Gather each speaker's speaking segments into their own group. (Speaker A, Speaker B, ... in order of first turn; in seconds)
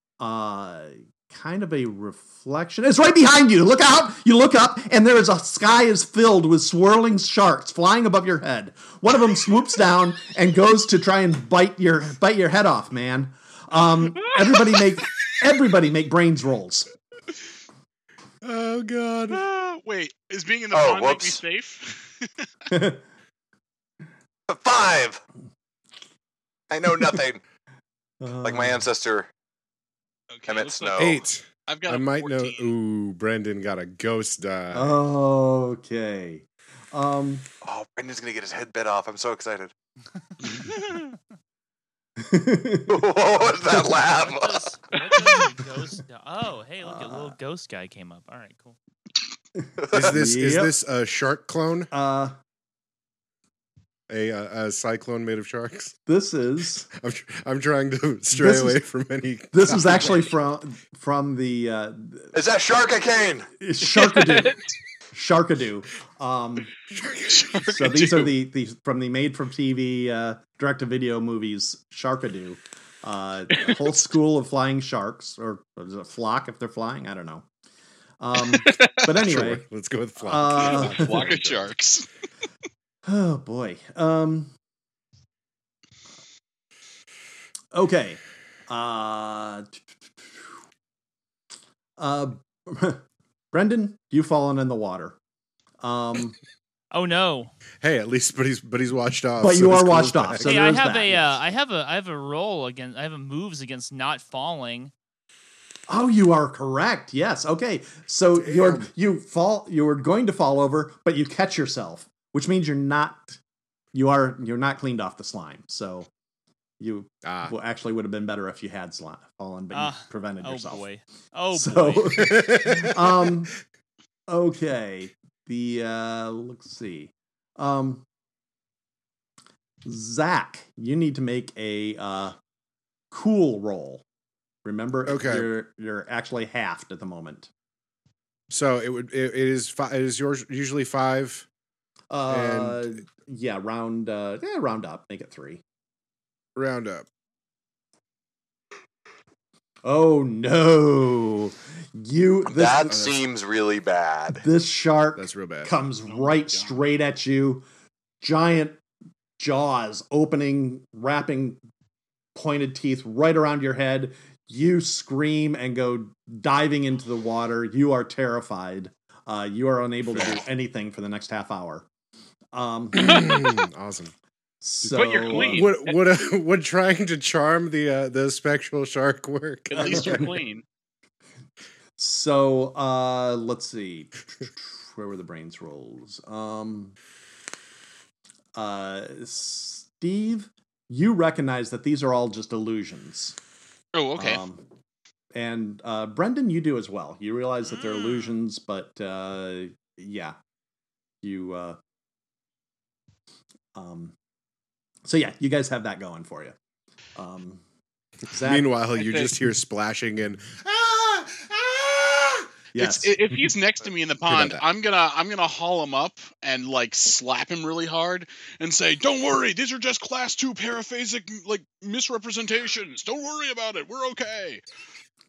Speaker A: 0.2-16.9, 22.7-23.0, 28.2-28.9, 34.7-37.5, 42.2-43.1, 46.8-47.4, 49.6-50.7, 51.9-52.4, 56.1-56.9, 58.3-58.8, 59.5-62.3, 63.6-66.7, 67.7-77.5, 78.2-79.6, 80.2-81.3, 83.0-84.5, 87.7-90.4, 92.0-93.0, 93.5-95.2, 95.8-96.4, 99.4-101.4, 105.9-113.4, 113.9-116.1, 116.8-120.8, 121.5-123.5, 124.3-128.0, 129.8-132.4, 133.1-134.0, 134.7-137.5, 142.1-145.6, 149.8-153.1, 154.4-157.6, 158.2-158.8, 159.4-161.6, 162.3-171.9, 172.5-173.5, 174.6-175.7, 179.8-180.3, 182.0-187.0, 188.6-193.4, 194.2-194.6, 195.3-200.4, 201.2-201.8, 203.7-204.1, 205.1-206.6, 207.2-207.6, 208.3-208.7, 212.7-213.4
Speaker B: 18.4-19.4, 31.0-35.0, 49.9-51.9, 54.1-56.0, 56.9-60.2, 66.9-67.5, 79.1-81.7, 97.8-100.6, 108.4-108.9, 117.2-117.5, 122.2-123.3, 135.1-135.5, 138.5-141.5, 142.3-143.0, 146.6-147.1, 155.2-155.8, 170.1-170.4, 172.9-174.1, 175.3-180.3, 208.4-212.5, 214.3-214.6
Speaker C: 19.3-22.5, 30.3-32.7, 63.9-64.6, 67.3-68.3, 78.5-79.0, 80.5-82.1, 156.1-156.7, 174.8-176.0, 179.7-180.6, 193.9-194.4, 209.0-209.3, 212.8-224.6
Speaker D: 20.7-21.4, 24.5-25.2, 26.7-27.4, 28.4-29.3, 30.5-31.2, 37.6-39.7, 42.9-45.4, 49.8-50.1, 62.3-63.5, 152.5-154.5
Speaker E: 44.0-48.8, 96.9-97.5, 100.4-104.9, 119.7-122.3